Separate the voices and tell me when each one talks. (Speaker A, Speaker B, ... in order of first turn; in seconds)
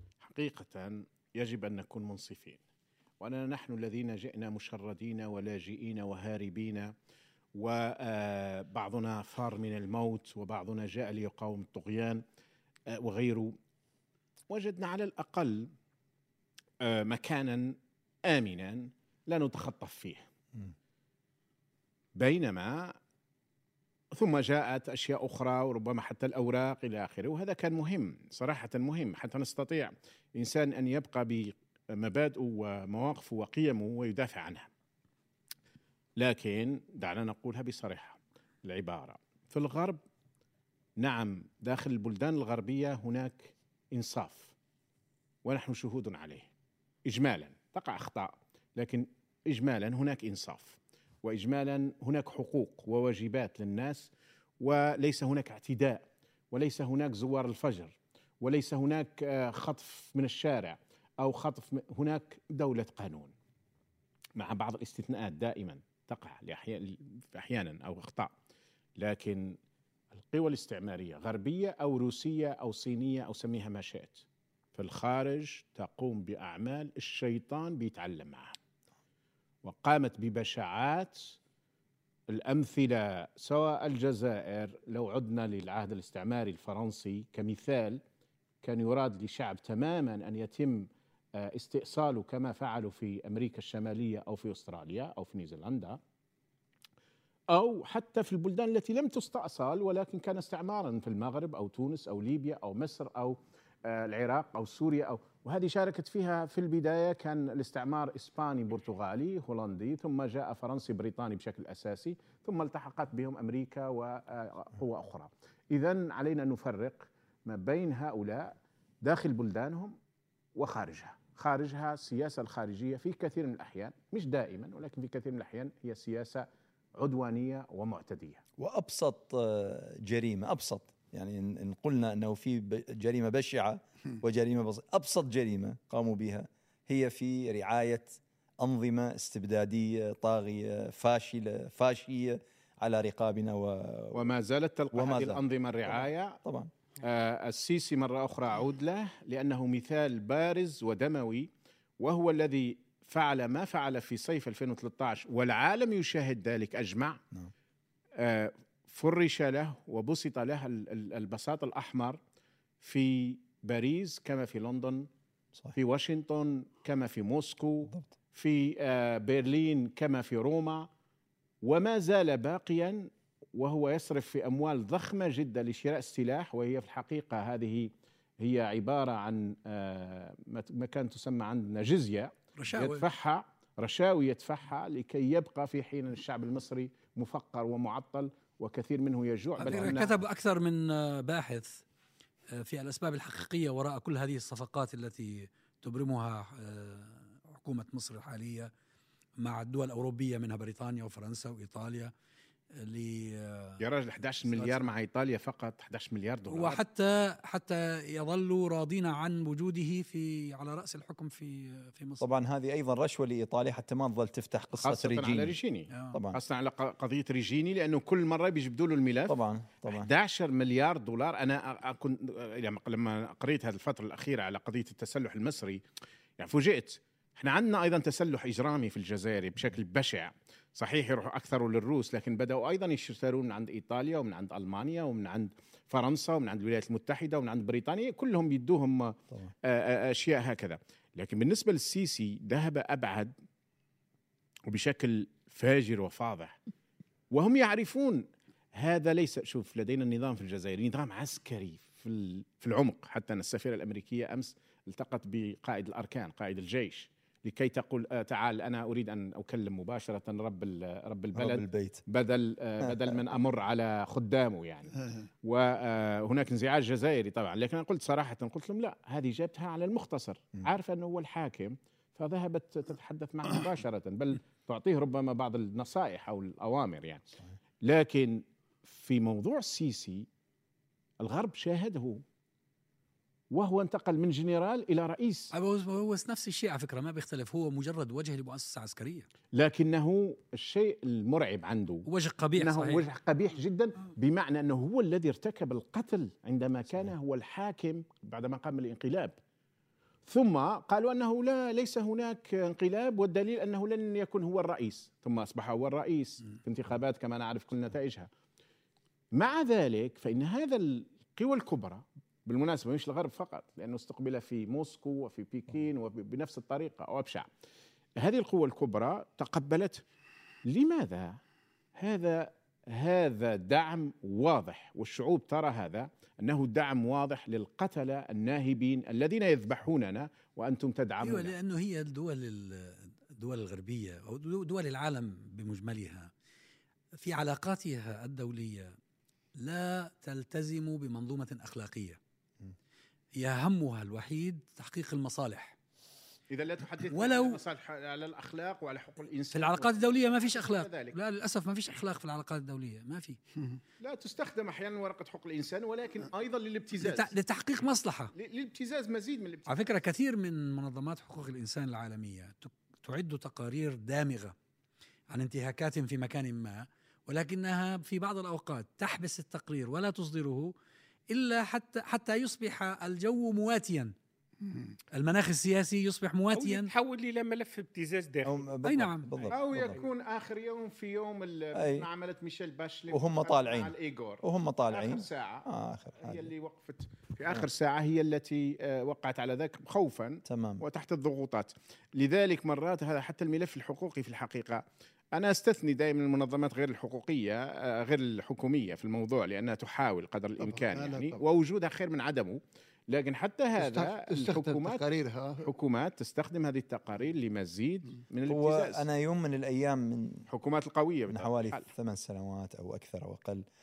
Speaker A: 0.2-2.6, 3.2-6.9, 7.6-12.2, 12.9-13.6, 14.5-15.7, 16.8-20.2, 22.2-22.9, 24.1-34.7, 36.2-40.0, 41.0-44.5, 45.5-46.5, 47.1-54.1, 54.6-63.3, 64.4-68.3, 69.0-69.5, 70.1-74.2, 74.8-78.5, 79.6-81.3, 82.3-88.0, 88.6-96.0, 97.5-120.0, 120.6-128.4, 144.1-146.4, 147.0-151.5, 152.0-157.2, 158.2-162.2, 162.8-165.1, 165.8-170.9, 171.6-177.9, 178.4-190.2, 203.8-206.8, 214.7-225.8, 226.4-243.3, 244.7-246.5, 247.3-248.2, 248.8-277.3, 277.8-280.3, 281.2-282.2, 283.5-285.5, 289.5-299.3, 300.3-308.3, 309.3-317.5, 318.2-320.0, 320.7-321.4, 322.0-331.5, 346.5-351.2, 354.0-357.3, 358.4-359.9, 379.5-385.7, 386.2-394.8, 395.3-402.6, 403.1-405.1, 405.6-409.1, 410.5-411.9
Speaker B: 128.6-144.3, 144.9-146.7, 167.9-168.1, 212.2-215.6, 216.1-216.4, 219.3-220.1, 261.4-262.0, 378.4-380.0, 381.7-382.1, 383.1-386.5, 390.5-390.8, 408.5-410.4, 411.3-413.6
Speaker C: 182.6-183.0, 189.6-191.8, 192.6-198.7, 199.4-202.1, 202.8-203.8, 204.5-204.9, 206.5-212.2, 215.9-216.2, 285.5-289.3, 292.1-293.0, 331.2-336.3, 337.2-338.9, 339.6-342.2, 343.4-345.8, 347.1-347.6, 349.5-353.4, 357.0-358.3, 359.7-364.6, 365.3-370.7, 371.3-374.1, 375.1-376.9, 378.8-379.3
Speaker D: 376.5-378.6
Speaker E: 400.6-401.4, 403.8-405.7